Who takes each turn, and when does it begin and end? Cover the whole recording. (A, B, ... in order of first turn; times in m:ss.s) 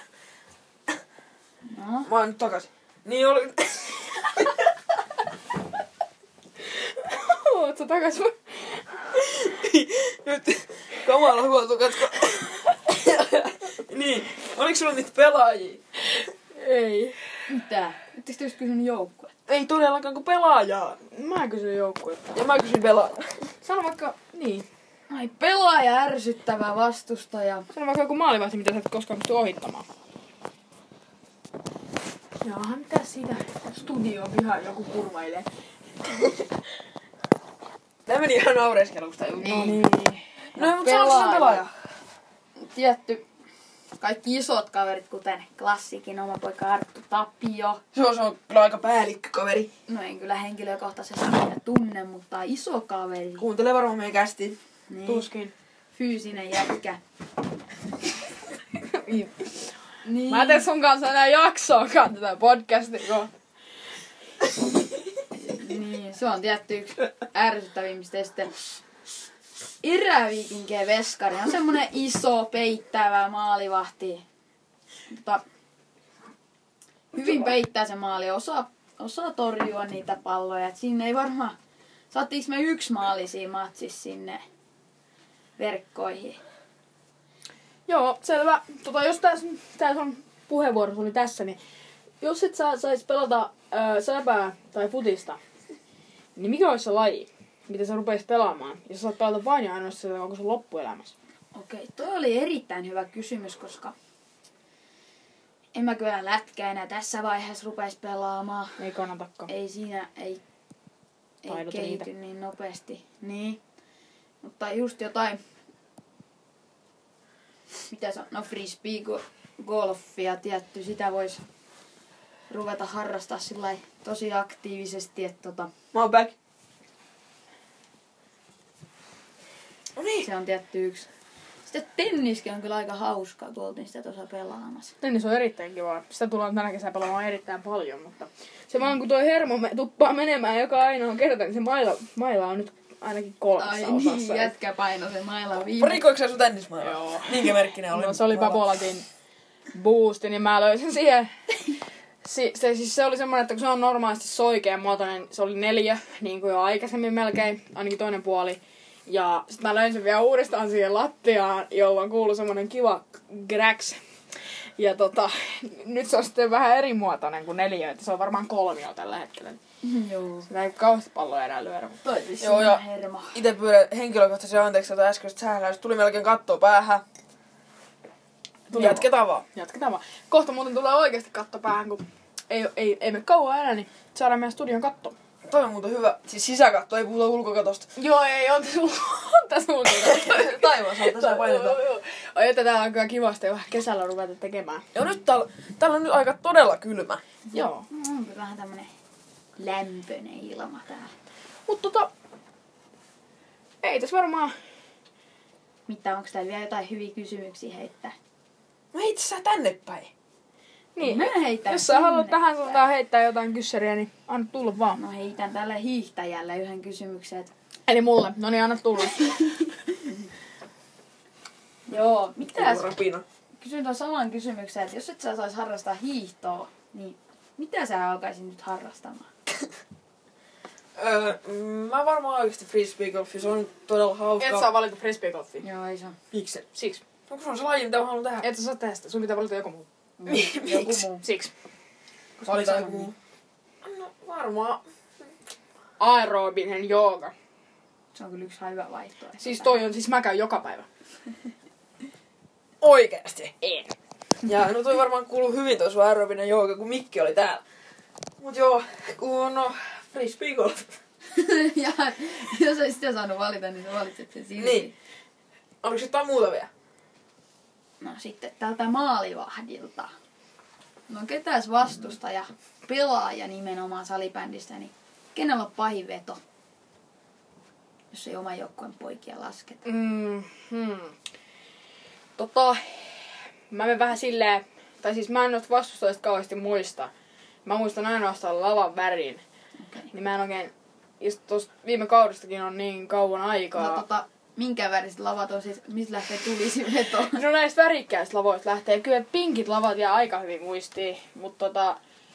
0:01.6-0:02.1 A
0:02.1-0:04.5 B
0:07.0-0:08.8 C
0:09.2-0:15.8 B
0:16.5-0:17.2 C
0:17.5-0:19.3 A
0:19.5-0:21.0 B
0:21.1-0:22.4 C
0:22.3-0:23.4 B
0:23.6-0:24.6 C
0:25.1-0:27.7 A
0:27.7-0:29.8 C
0:32.4-0:35.4 C
0:38.0-0:39.8 B
0:39.4-0:40.3 C
0:40.5-0:41.6 A
0:40.5-0:41.7 B
0:42.6-0:43.2 A
0:44.0-0:47.8 A
0:47.9-0:49.7 B
0:49.9-0:53.4 A
0:53.4-0:54.6 B
0:54.9-0:55.3 A
0:55.0-0:55.5 C
0:55.9-0:57.0 A
0:58.9-0:59.5 C
1:00.0-1:00.7 A
1:00.3-1:03.3 C
1:05.3-1:08.5 A
1:09.8-1:14.2 A
1:15.1-1:15.4 A
1:17.1-1:21.6 A
1:22.1-1:24.4 A
1:25.6-1:26.4 A
1:27.9-1:31.6 C
1:32.2-1:35.4 C
1:36.4-1:41.1 C
1:41.5-1:43.9 A
1:45.7-1:48.8 A
1:48.8-1:49.5 C
1:49.5-1:50.4 A
1:51.4-1:53.6 A
1:51.5-1:52.0 C
1:54.4-1:55.4 A
1:57.9-2:01.4 A
2:02.5-2:05.7 A
2:05.9-2:06.4 B
2:10.0-2:10.3 B
2:10.2-2:11.1 A
2:11.6-2:14.9 A
2:15.0-2:24.5 C
2:23.6-2:26.0 A
2:25.7-2:28.6 B
2:26.8-2:29.0 C
2:29.7-2:31.3 C
2:32.2-2:44.0 C
2:44.8-2:49.6 C
2:49.8-2:50.5 A
2:50.5-2:52.0 C
2:52.0-2:53.4 A
2:52.4-2:52.8 B
2:53.3-2:57.0 B
2:58.7-3:05.2 C
2:58.7-2:59.4 B
3:05.4-3:07.9 B
3:08.0-3:14.8 C
3:10.0-3:11.8 B
3:14.9-3:17.2 B
3:17.5-3:18.9 A
3:17.5-3:17.9 C
3:19.6-3:21.1 A
3:21.7-3:22.1 C
3:23.8-3:24.5 C
3:25.9-3:28.1 A
3:28.9-3:30.1 B
3:31.0-3:35.0 C
3:31.0-3:32.8 A
3:34.9-3:37.5 A
3:37.9-3:39.6 C
3:39.2-3:40.3 A
3:41.9-3:42.9 A
3:42.5-3:43.2 B
3:43.6-3:49.3 A
3:51.0-3:54.7 B
3:54.4-3:55.6 C
3:55.6-3:56.2 A
3:56.3-3:56.7 B
3:56.7-3:57.0 C
3:57.3-3:58.4 B
3:58.4-3:59.8 C
4:00.2-4:01.2 A
4:00.3-4:01.0 B
4:01.2-4:01.5 C
4:02.4-4:03.1 A
4:02.4-4:03.1 B
4:03.8-4:04.8 B
4:06.0-4:07.3 C
4:08.1-4:09.8 A
4:09.4-4:10.8 C
4:12.8-4:13.5 B
4:13.6-4:13.9 C
4:14.4-4:17.6 B
4:18.4-4:20.9 B
4:21.3-4:24.9 A
4:24.6-4:24.9 B
4:25.8-4:26.7 B
4:28.0-4:30.1 A
4:31.1-4:36.4 A
4:38.1-4:39.8 A
4:39.8-4:41.1 C
4:42.4-4:47.1 C
4:47.6-4:49.4 C
4:49.8-4:50.1 A
4:50.1-4:54.0 C
4:53.7-4:57.4 A
4:57.3-5:02.0 C